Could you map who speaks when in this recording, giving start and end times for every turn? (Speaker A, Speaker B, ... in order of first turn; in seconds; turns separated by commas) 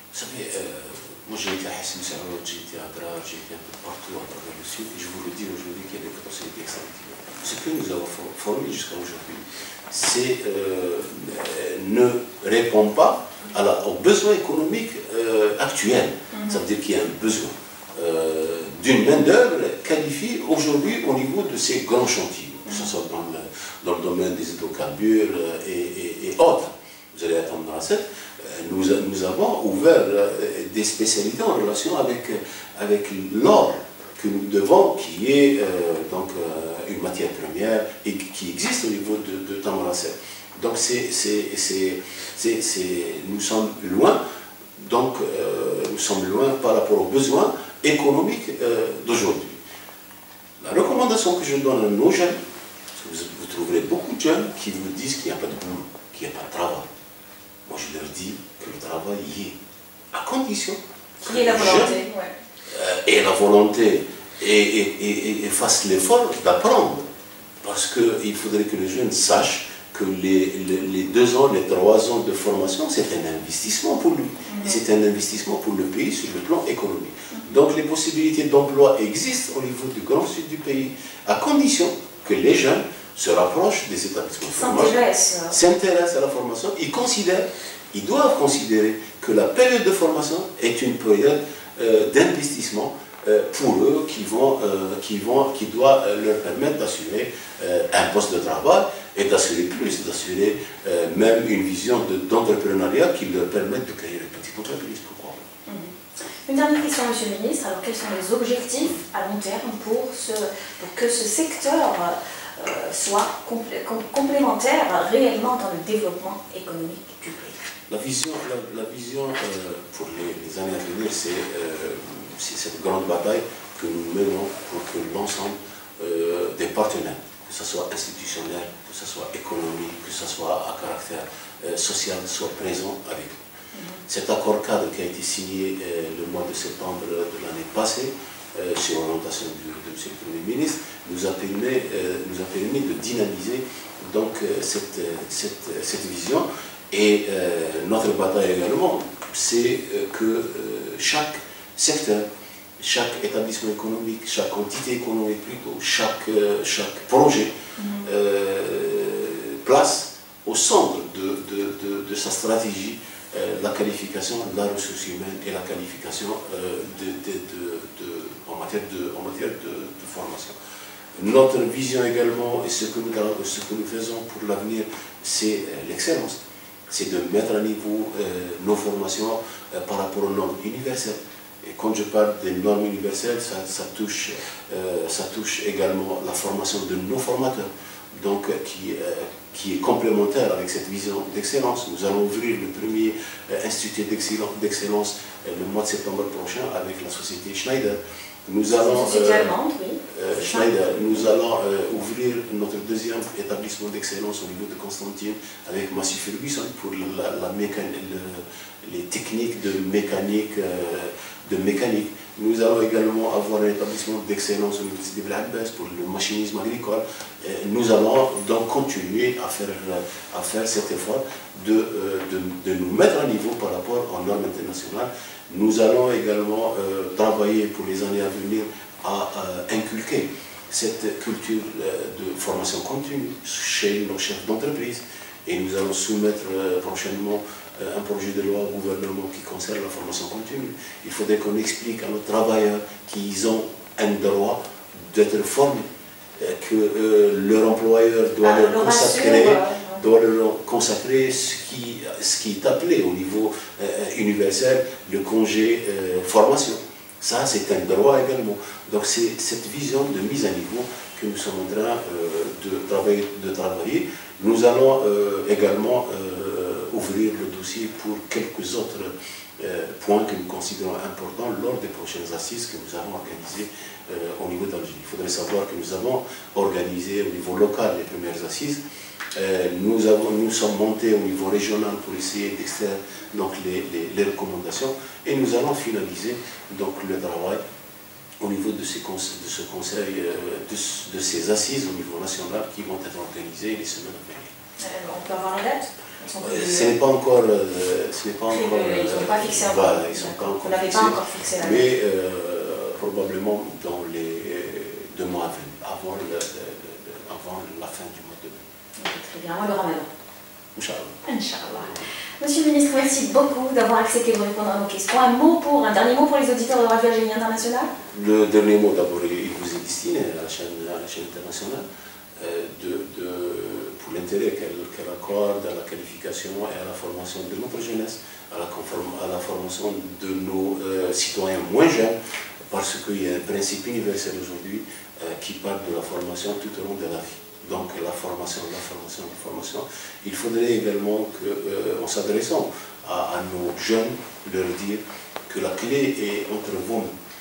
Speaker A: 0.1-44.2, Speaker B: 16.3-16.6, Speaker A: 44.8-49.6, Speaker A: 50.6-52.4, Speaker A: 53.0-56.9, Speaker A: 57.7-59.5, Speaker A: 60.1-62.0, Speaker B: 61.2-62.3, Speaker A: 62.7-67.1, Speaker A: 67.6-84.9, Speaker B: 74.5-74.8, Speaker B: 77.3-77.6, Speaker B: 84.5-85.5, Speaker A: 85.5-105.4, Speaker B: 105.7-105.9, Speaker B: 106.4-117.6, Speaker A: 117.9-133.4, Speaker B: 133.7-134.0, Speaker A: 134.1-152.2, Speaker A: 152.8-157.5, Speaker B: 157.8-158.1, Speaker A: 158.0-170.5, Speaker A: 171.2-199.5, Speaker B: 198.7-201.2, Speaker A: 200.1-245.8, Speaker A: 246.4-278.8, Speaker B: 248.4-250.0, Speaker A: 279.3-287.6, Speaker A: 288.4-294.5, Speaker B: 294.8-296.9, Speaker A: 296.4-308.6, Speaker B: 298.5-301.9, Speaker B: 309.0-310.1, Speaker A: 310.7-311.1, Speaker B: 311.2-317.9, Speaker A: 311.7-312.1, Speaker A: 318.1-321.8, Speaker A: 322.4-332.1, Speaker A: 332.7-347.1